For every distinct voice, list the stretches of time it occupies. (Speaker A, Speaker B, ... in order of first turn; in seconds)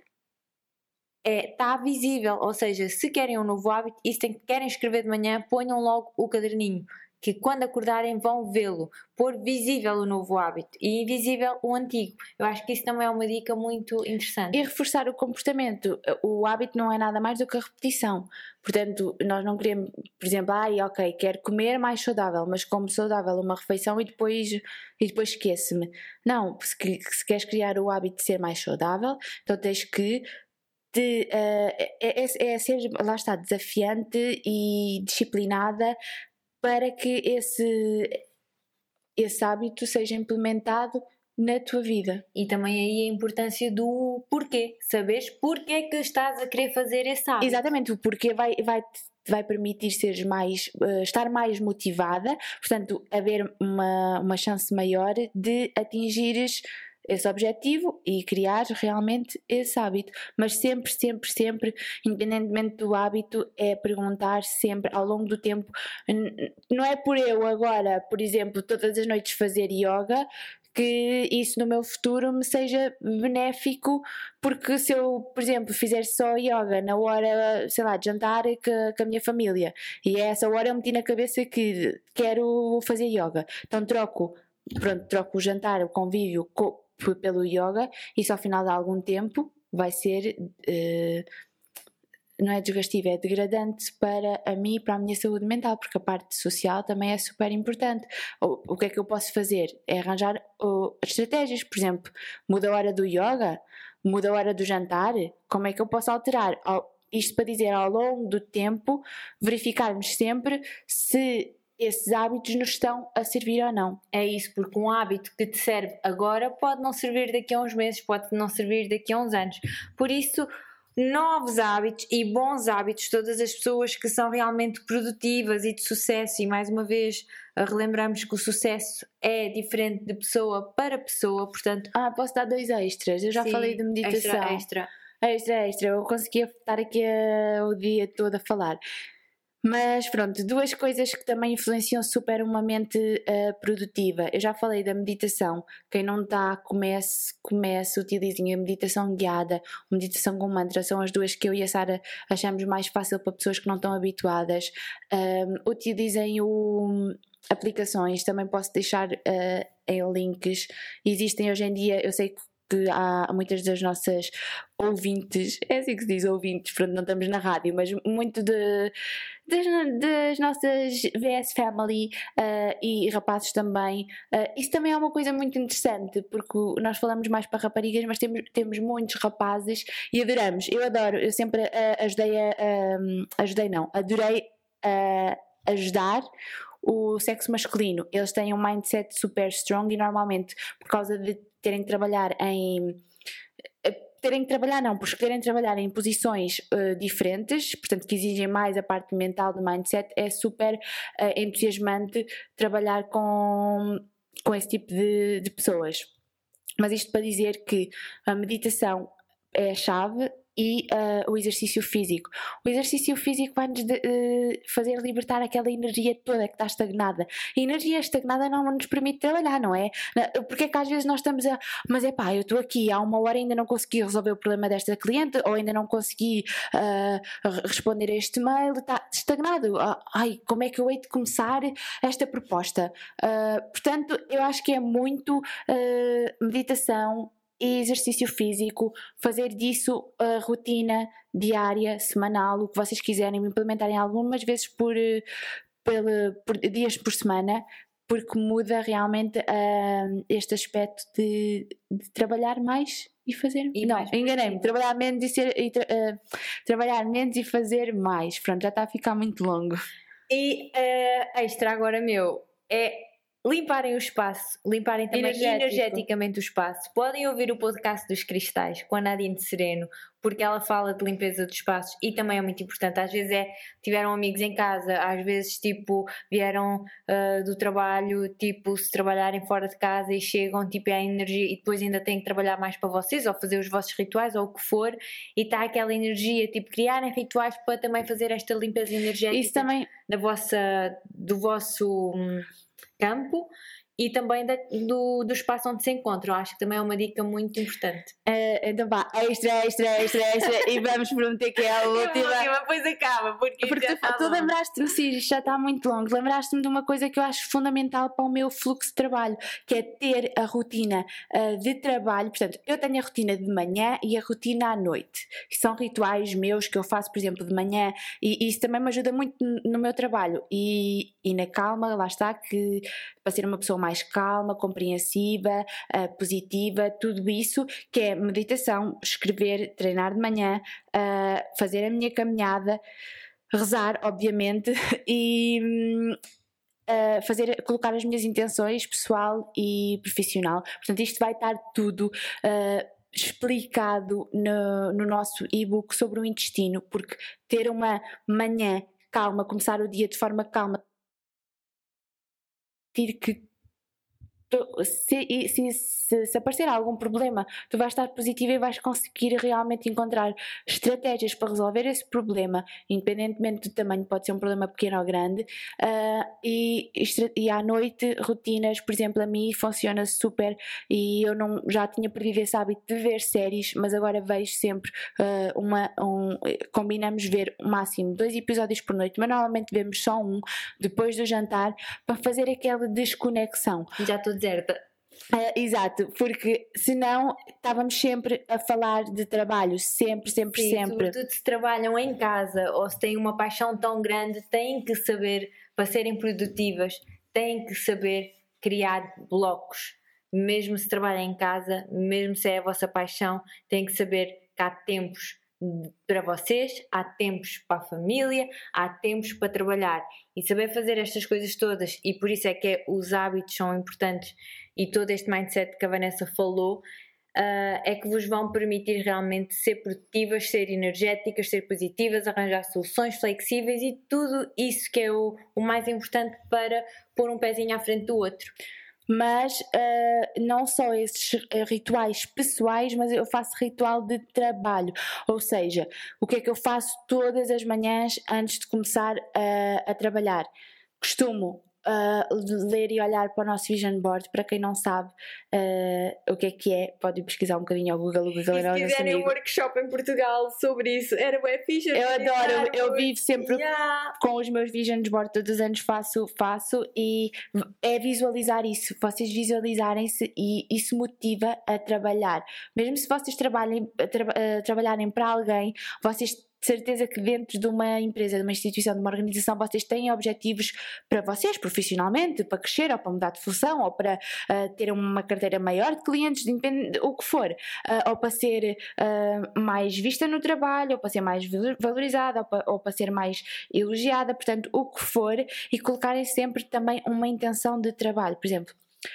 Speaker A: 1.2-14.6, 42.3-47.6, 114.1-131.9, 133.3-134.9, 253.7-254.7, 260.3-292.5, 293.0-298.1, 301.8-304.5, 384.0-384.8, 390.5-416.8, 417.4-428.5, 448.5-454.1
Speaker B: 14.5-30.2, 30.9-36.0, 36.6-38.2, 39.2-42.2, 47.4-91.2, 92.4-114.0, 131.9-134.6, 135.2-138.8, 139.6-168.9, 169.5-186.2, 186.8-193.0, 193.8-206.1, 206.8-245.2, 245.8-259.8, 265.1-266.0, 289.3-289.9, 298.2-302.5, 303.6-332.8, 333.5-336.2, 336.9-350.8, 352.9-353.5, 354.5-383.9, 385.3-391.1, 429.1-440.5, 441.0-449.3, 451.9-453.6, 454.2-488.8